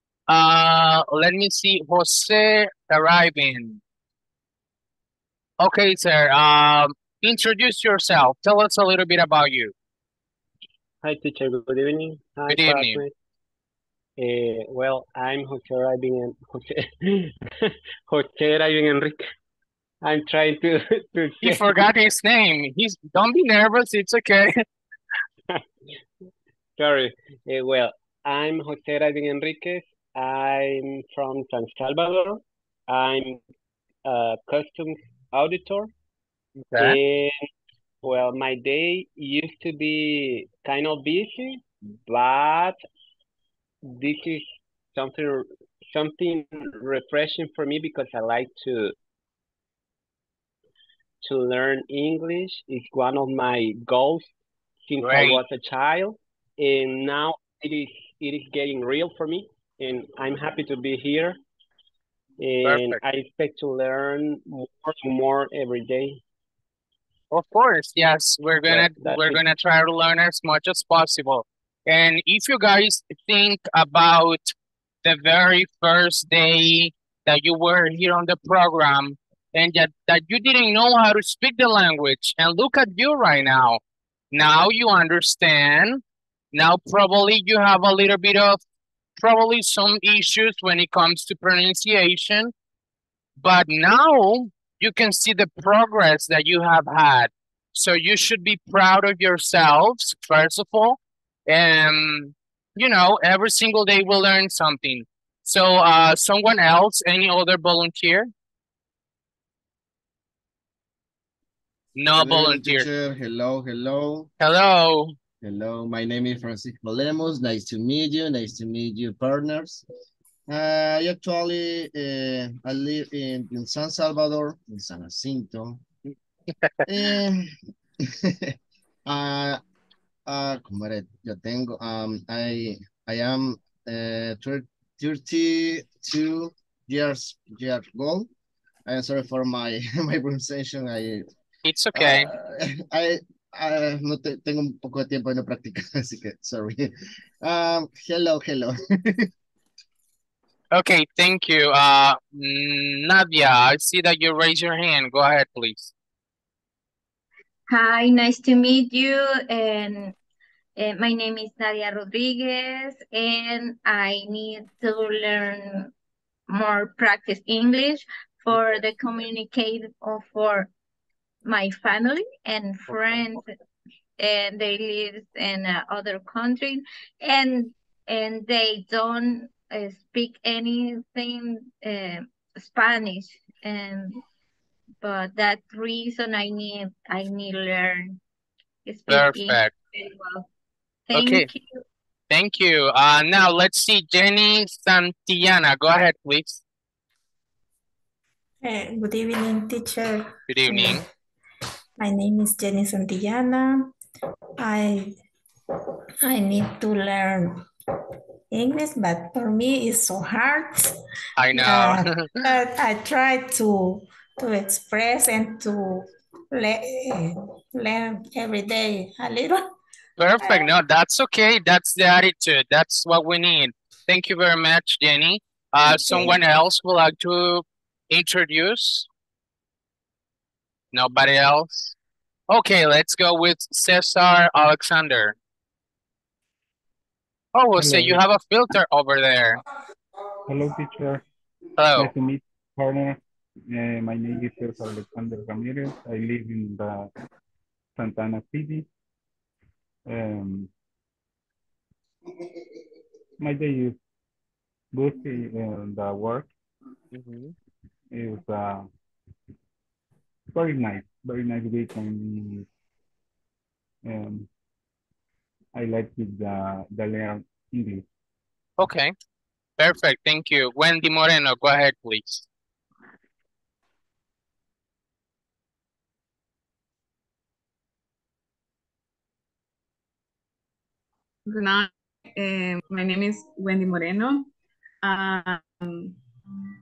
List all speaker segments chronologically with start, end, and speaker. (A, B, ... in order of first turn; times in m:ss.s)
0:00.3-0:03.8 A
0:05.6-0:09.7 A
0:11.0-0:13.1 B
0:12.5-0:13.0 A
0:14.2-0:19.2 B
0:20.0-0:21.7 B
0:21.4-0:24.6 A
0:26.8-0:33.4 B
0:34.0-0:35.9 B
0:36.6-0:37.0 A
0:36.8-0:37.3 B
0:38.0-0:42.8 B
0:43.9-0:48.9 B
0:51.2-0:54.3 B
0:54.9-1:01.4 B
0:55.0-0:55.4 A
1:02.4-1:06.2 B
1:02.6-1:03.0 A
1:07.3-1:14.5 A
1:08.7-1:09.4 B
1:15.0-1:23.8 A
1:24.3-1:26.0 A
1:26.5-1:28.6 A
1:29.2-1:32.5 A
1:33.4-1:48.3 A
1:52.0-1:52.8 A
1:52.1-1:54.3 C
1:54.4-1:55.1 A
1:55.4-1:59.8 C
2:00.5-2:05.8 C
2:06.9-2:07.4 C
2:08.0-2:08.5 C
2:09.0-2:09.6 C
2:10.3-2:18.3 C
2:18.9-2:21.2 C
2:21.6-2:22.3 A
2:22.0-2:26.9 C
2:27.4-2:29.3 C
2:30.7-2:35.9 A
2:37.7-2:40.1 D
2:40.8-2:45.9 D
2:46.5-2:50.7 D
2:51.4-2:53.4 D
2:54.2-3:04.2 D
3:05.0-3:08.2 D
3:08.8-3:10.5 D
3:09.1-3:09.7 A
3:11.1-3:11.8 D
3:11.1-3:11.5 A
3:12.3-3:16.6 A
3:18.6-3:21.0 E
3:20.5-3:21.0 A
3:22.0-3:23.9 E
3:24.6-3:25.1 E
3:26.2-3:27.6 E
3:28.5-3:30.9 E
3:31.4-3:32.3 A
3:31.5-3:39.7 E
3:40.2-3:49.1 A
3:40.4-3:40.7 E
3:45.8-3:46.4 E
3:50.9-3:51.9 A
3:52.5-3:55.4 A
3:57.5-3:59.6 A
3:57.8-3:58.2 F
4:00.5-4:01.2 F
4:01.8-4:02.1 A
4:02.0-4:03.2 F
4:03.7-4:07.1 F
4:08.0-4:08.8 F
4:10.1-4:10.7 F
4:13.4-4:14.0 F
4:14.9-4:16.5 F
4:17.1-4:17.5 A
4:18.1-4:18.9 F
4:20.5-4:22.6 F
4:24.0-4:24.5 F
4:25.7-4:28.0 F
4:28.8-4:29.1 A
4:29.8-4:32.4 A
4:41.4-4:44.5 G
4:45.0-4:46.2 G